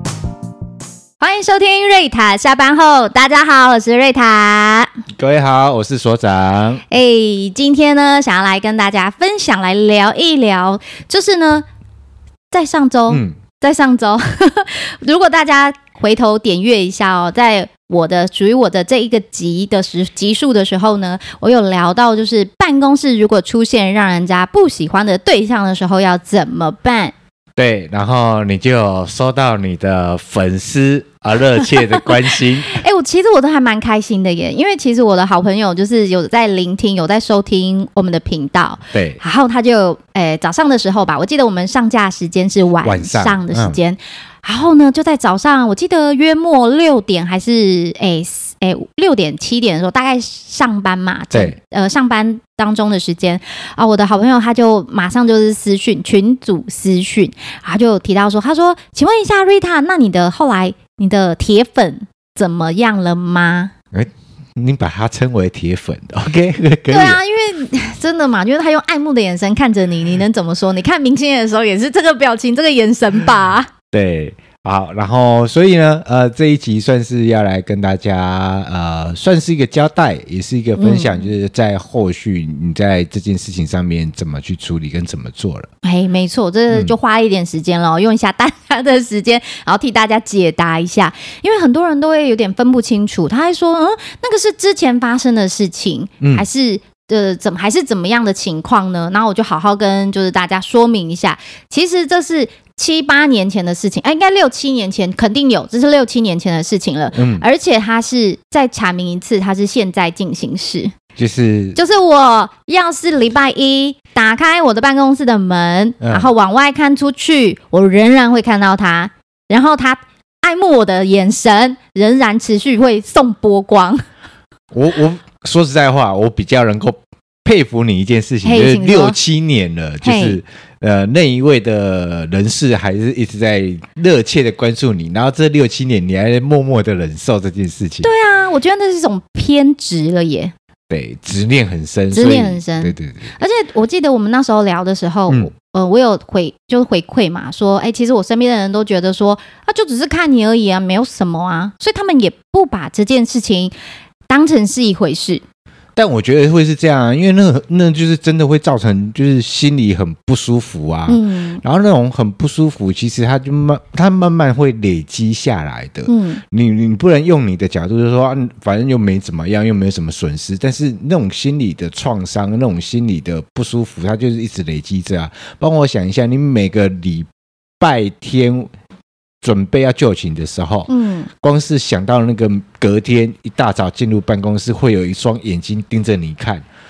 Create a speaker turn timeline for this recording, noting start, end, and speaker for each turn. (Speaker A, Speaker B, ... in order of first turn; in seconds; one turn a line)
Speaker A: 1.2-4.9
Speaker B: 5.2-6.8
Speaker A: 6.9-11.6
Speaker A: 12.5-27.1
Speaker B: 13.1-13.3
Speaker B: 27.6-32.8
Speaker A: 32.6-63.7
Speaker B: 38.9-39.2
Speaker B: 42.8-43.8
Speaker B: 63.9-67.2
Speaker A: 66.9-73.7
Speaker B: 73.9-85.7
Speaker A: 80.8-81.3
Speaker A: 85.8-110.9
Speaker B: 107.1-107.4
Speaker B: 111.2-111.8
Speaker A: 111.7-124.0
Speaker B: 116.0-116.3
Speaker B: 124.7-138.1
Speaker A: 128.4-129.2
Speaker A: 130.0-130.4
Speaker A: 138.0-140.5
Speaker B: 140.9-143.3
Speaker A: 142.1-153.7
Speaker A: 154.3-155.4
Speaker B: 155.9-177.3
Speaker A: 161.1-161.6
Speaker A: 166.1-166.4
Speaker B: 177.8-178.7
Speaker B: 179.4-180.9
Speaker A: 180.9-181.3
Speaker B: 181.4-186.6